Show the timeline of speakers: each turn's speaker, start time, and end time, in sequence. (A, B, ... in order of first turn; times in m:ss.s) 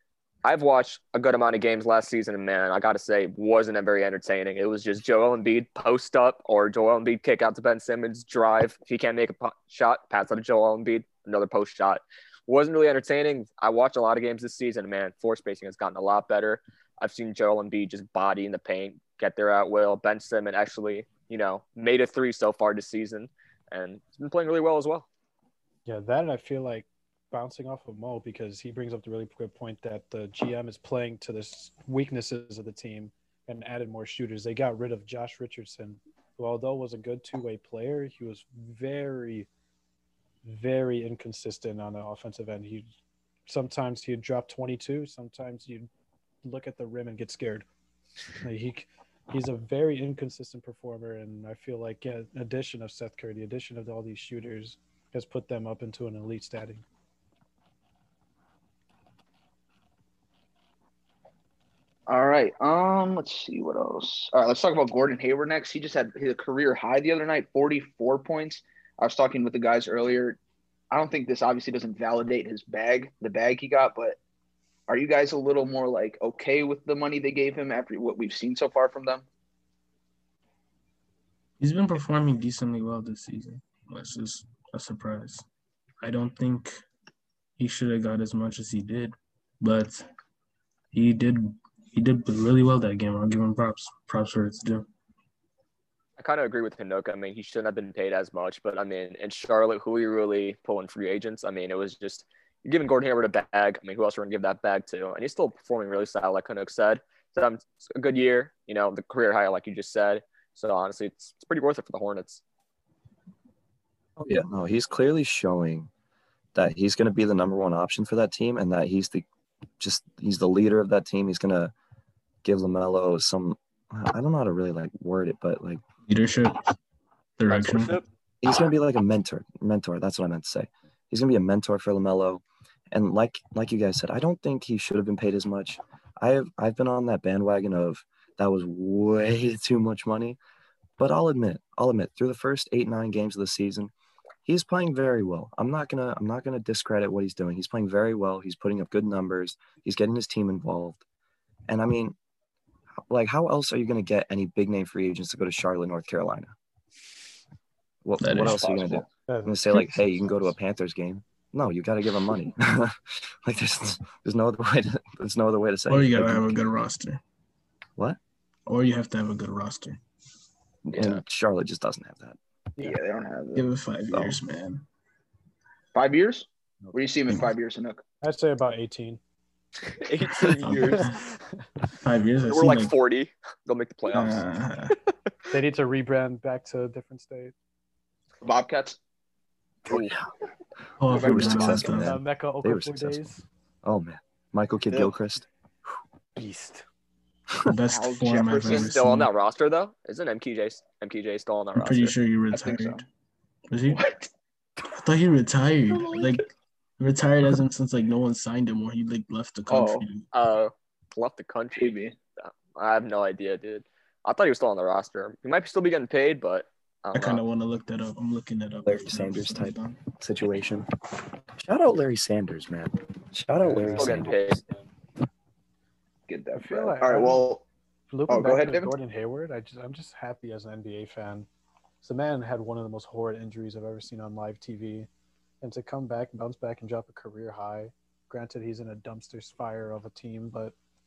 0:00.4-0:25.1 A
0:25.8-0:39.5 B
0:40.4-0:42.9 B
0:43.5-0:45.9 B
0:46.4-0:47.6 B
0:48.4-0:56.8 B
1:02.1-1:10.4 C
1:10.9-1:14.2 C
1:14.9-1:19.2 C
1:21.6-1:25.4 D
1:26.0-1:26.8 D
1:27.6-1:30.1 D
1:30.9-1:34.9 D
1:36.2-1:52.4 A
1:54.2-1:55.9 E
1:56.5-1:59.2 E
1:59.8-2:01.7 E
2:02.4-2:05.8 E
2:06.0-2:06.7 D
2:07.4-2:08.0 D
2:07.5-2:08.0 A
2:08.4-2:20.4 E
2:21.0-2:23.9 E
2:24.4-2:31.0 E
2:31.7-2:32.2 E
2:33.1-2:36.5 E
2:38.0-2:46.6 E
2:38.2-2:38.7 D
2:38.5-2:39.0 C
2:39.3-2:40.4 B
2:45.9-2:47.2 D
2:48.7-2:50.0 D
2:50.9-2:51.2 A
2:50.9-2:53.0 E
2:52.8-2:53.7 C
2:53.6-2:54.8 D
2:54.1-2:54.4 E
2:55.9-2:58.0 C
2:58.2-2:59.2 B
2:59.9-3:01.1 A
3:00.4-3:01.2 D
3:00.8-3:01.6 B
3:02.0-3:03.0 D
3:02.4-3:04.4 A
3:04.1-3:05.0 D
3:05.5-3:07.5 B
3:08.4-3:09.0 C
3:09.9-3:10.2 E
3:11.0-3:12.1 D
3:11.1-3:13.3 E
3:11.1-3:11.9 C
3:11.9-3:13.4 B
3:13.8-3:15.5 E
3:16.4-3:16.8 B
3:17.6-3:19.3 D
3:17.9-3:18.9 C
3:18.7-3:22.1 A
3:21.7-3:23.0 D
3:22.5-3:23.0 C
3:23.7-3:24.0 D
3:23.9-3:24.3 C
3:24.9-3:30.3 D
3:29.7-3:30.0 C
3:30.3-3:37.4 A
3:31.7-3:32.2 C
3:37.1-3:40.0 D
3:38.8-3:40.9 E
3:41.5-3:44.6 E
3:43.6-3:44.2 B
3:43.9-3:44.6 A
3:46.3-3:47.6 C
3:46.5-3:47.5 B
3:48.1-3:51.5 B
3:48.3-3:48.9 C
3:52.0-3:55.1 B
3:55.6-4:00.7 B